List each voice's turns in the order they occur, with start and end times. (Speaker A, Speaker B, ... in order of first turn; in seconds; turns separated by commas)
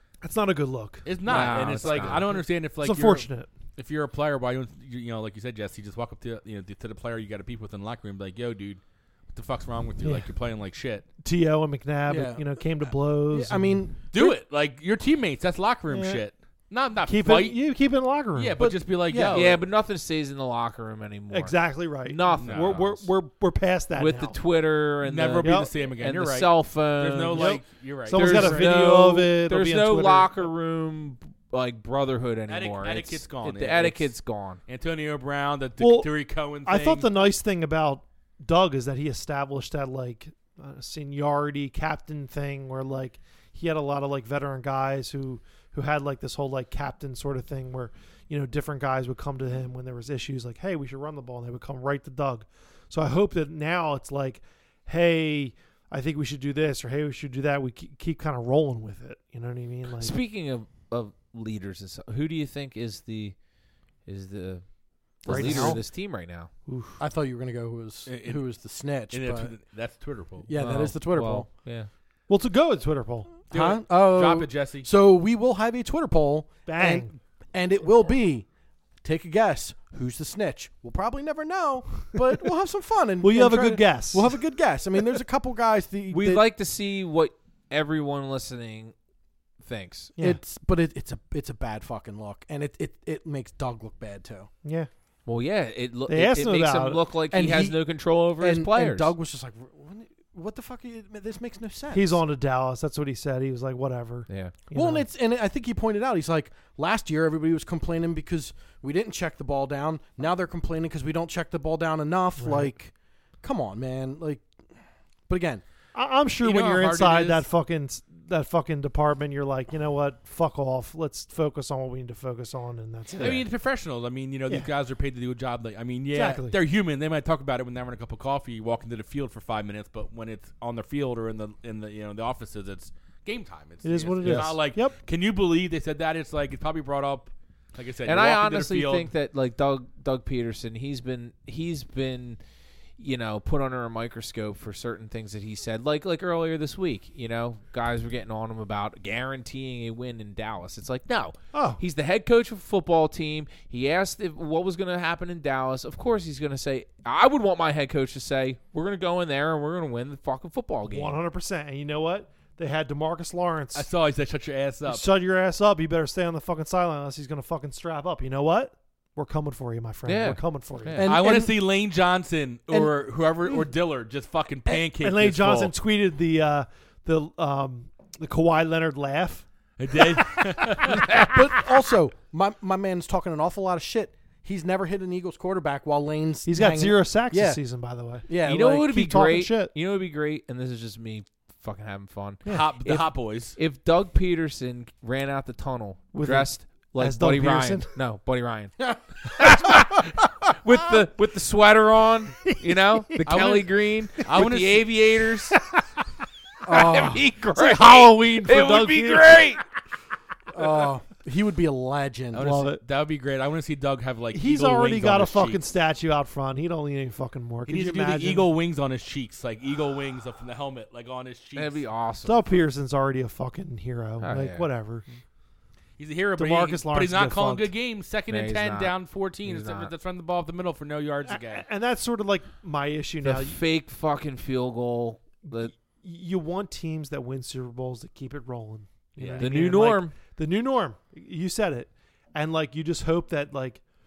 Speaker A: 0.2-3.5, Speaker B: 1.0-8.8, Speaker C: 1.2-2.3, Speaker B: 9.3-11.1, Speaker A: 10.0-10.3, Speaker A: 11.2-14.1, Speaker D: 12.1-14.3, Speaker B: 14.1-17.6, Speaker A: 15.9-16.2, Speaker A: 17.0-18.6, Speaker B: 18.3-19.6, Speaker D: 18.6-19.6, Speaker C: 19.3-23.0, Speaker A: 21.3-24.4, Speaker B: 22.4-23.0, Speaker C: 24.0-27.6, Speaker B: 25.0-28.7, Speaker A: 25.4-25.7, Speaker A: 27.3-30.4, Speaker C: 28.1-34.6, Speaker B: 32.5-34.1, Speaker B: 34.7-37.0, Speaker A: 35.8-36.1, Speaker A: 36.6-60.1, Speaker C: 60.0-63.4, Speaker C: 64.0-64.7, Speaker C: 65.2-66.5, Speaker A: 65.2-65.9, Speaker D: 65.3-65.8, Speaker A: 66.7-67.0, Speaker D: 67.0-69.5, Speaker B: 68.0-68.4, Speaker B: 69.1-70.5, Speaker D: 70.5-71.5, Speaker C: 70.5-71.9, Speaker A: 72.3-73.4, Speaker D: 73.5-78.5, Speaker B: 73.5-74.9, Speaker A: 76.7-77.1, Speaker D: 79.0-86.5, Speaker A: 83.2-84.4, Speaker C: 86.1-88.9, Speaker C: 89.6-90.1, Speaker D: 90.2-94.5, Speaker A: 94.6-94.9, Speaker C: 95.2-99.1, Speaker A: 96.1-97.0, Speaker D: 97.3-97.9, Speaker D: 98.4-102.2, Speaker A: 101.9-105.0, Speaker D: 104.7-114.5, Speaker A: 112.4-112.7, Speaker D: 115.3-115.6, Speaker A: 115.9-123.5, Speaker B: 116.4-117.4, Speaker B: 123.2-139.1, Speaker A: 126.1-126.6, Speaker A: 133.8-134.9, Speaker C: 134.2-134.5, Speaker C: 138.1-142.4, Speaker C: 143.0-161.1, Speaker A: 151.5-151.8, Speaker A: 160.8-163.9, Speaker B: 163.7-165.1, Speaker A: 164.8-171.0, Speaker C: 170.0-171.1, Speaker D: 171.0-171.6, Speaker B: 171.0-175.7, Speaker A: 174.7-181.2, Speaker B: 179.8-181.2, Speaker D: 180.9-187.6, Speaker A: 186.4-189.7, Speaker D: 188.3-188.9, Speaker C: 188.4-200.1, Speaker A: 192.4-192.7, Speaker B: 192.4-193.6, Speaker A: 196.1-197.9, Speaker D: 198.8-199.8, Speaker C: 200.6-205.6, Speaker A: 202.4-203.3, Speaker B: 203.2-205.4, Speaker D: 206.7-207.2, Speaker C: 206.7-209.6, Speaker A: 207.5-209.6, Speaker D: 210.5-212.5, Speaker B: 212.3-215.6, Speaker A: 212.4-212.8, Speaker A: 214.3-218.5, Speaker B: 217.7-221.8, Speaker C: 221.5-222.4, Speaker A: 222.2-225.1, Speaker C: 224.2-224.7, Speaker B: 226.0-231.6, Speaker A: 226.4-227.7, Speaker C: 228.3-229.9, Speaker A: 231.2-233.6, Speaker C: 233.2-235.7, Speaker A: 235.6-243.8, Speaker B: 239.2-239.5, Speaker C: 239.4-240.1